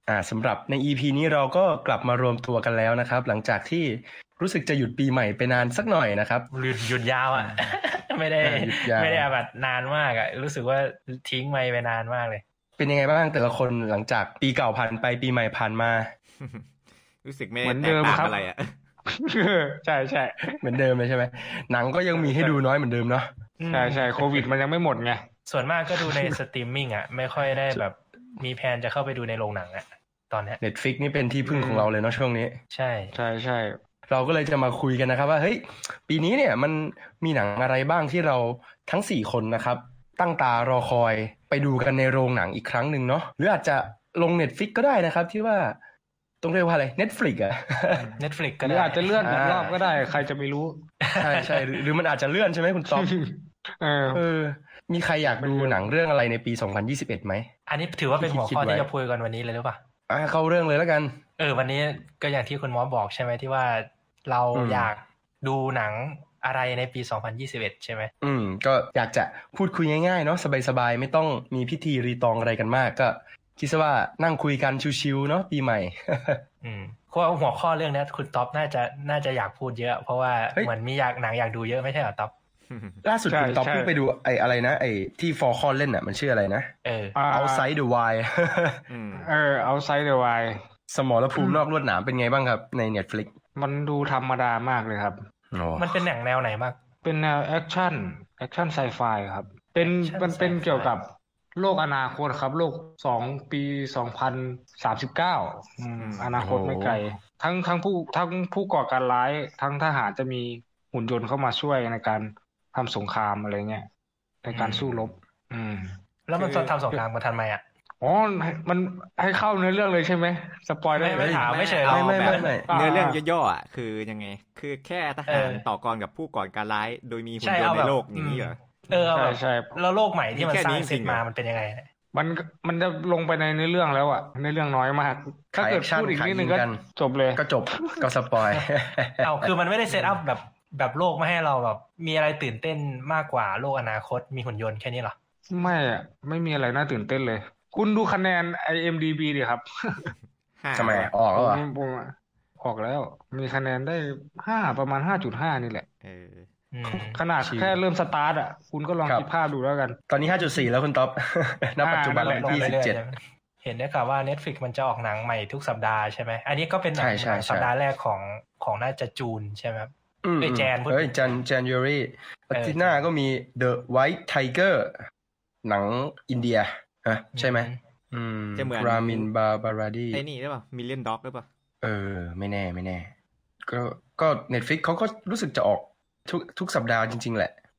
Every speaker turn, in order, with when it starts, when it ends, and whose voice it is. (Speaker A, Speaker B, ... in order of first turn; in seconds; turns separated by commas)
Speaker A: 0.1-6.5, Speaker B: 6.5-12.4, Speaker A: 7.4-7.7, Speaker A: 8.4-9.3, Speaker A: 12.8-16.1, Speaker C: 16.4-16.7, Speaker C: 17.2-18.8, Speaker D: 17.6-18.4, Speaker D: 19.1-20.7, Speaker A: 20.6-23.3, Speaker D: 22.1-22.6, Speaker B: 23.6-24.4, Speaker D: 23.7-25.2, Speaker B: 25.5-30.6, Speaker D: 25.9-26.3, Speaker A: 30.6-32.6, Speaker D: 31.4-31.9, Speaker B: 32.7-33.1, Speaker D: 33.1-33.8, Speaker A: 34.1-45.8, Speaker A: 46.4-48.1, Speaker D: 48.0-50.7, Speaker B: 48.2-49.8, Speaker A: 49.2-49.8, Speaker B: 51.0-51.7, Speaker A: 51.2-53.1, Speaker D: 52.9-54.2, Speaker A: 54.1-57.5, Speaker D: 55.4-55.9, Speaker B: 57.7-59.8, Speaker A: 58.2-58.9, Speaker A: 60.1-61.2, Speaker B: 61.4-68.1, Speaker A: 64.5-64.9, Speaker A: 68.2-76.4, Speaker B: 76.6-82.3, Speaker C: 82.7-83.0, Speaker A: 83.0-86.7, Speaker D: 83.3-83.9, Speaker B: 86.8-87.2, Speaker D: 87.2-87.7, Speaker A: 87.3-88.8, Speaker C: 88.9-89.3, Speaker D: 89.2-90.6, Speaker A: 90.9-93.3, Speaker D: 91.4-91.6, Speaker D: 93.6-95.2, Speaker A: 95.5-96.0, Speaker B: 95.8-96.8, Speaker D: 97.0-113.9, Speaker B: 99.8-100.9, Speaker C: 106.0-106.4, Speaker A: 106.4-107.0, Speaker D: 114.4-115.9, Speaker C: 114.5-115.2, Speaker B: 116.3-117.6, Speaker C: 116.3-116.8, Speaker D: 118.0-121.7, Speaker B: 120.9-122.5, Speaker A: 121.2-122.7, Speaker C: 121.5-128.6, Speaker D: 122.7-123.2, Speaker B: 125.3-125.6, Speaker B: 127.4-131.9, Speaker D: 128.9-129.8, Speaker C: 130.3-131.2, Speaker D: 132.1-138.0, Speaker A: 135.5-136.8, Speaker A: 137.4-139.5, Speaker B: 139.2-145.1, Speaker D: 139.9-140.2, Speaker D: 145.5-150.1, Speaker C: 145.6-146.0, Speaker C: 150.6-151.1, Speaker A: 150.8-151.6, Speaker D: 151.3-155.9, Speaker C: 156.0-156.5, Speaker B: 156.7-157.2, Speaker D: 156.9-160.4, Speaker A: 157.4-157.8, Speaker A: 160.1-163.0, Speaker D: 161.8-162.8, Speaker B: 162.2-171.4, Speaker A: 167.0-167.7, Speaker A: 170.2-175.0, Speaker B: 172.5-173.0, Speaker A: 175.6-180.2, Speaker B: 177.3-177.8, Speaker C: 178.6-179.3, Speaker C: 180.1-181.5, Speaker A: 181.8-183.1, Speaker A: 183.7-187.5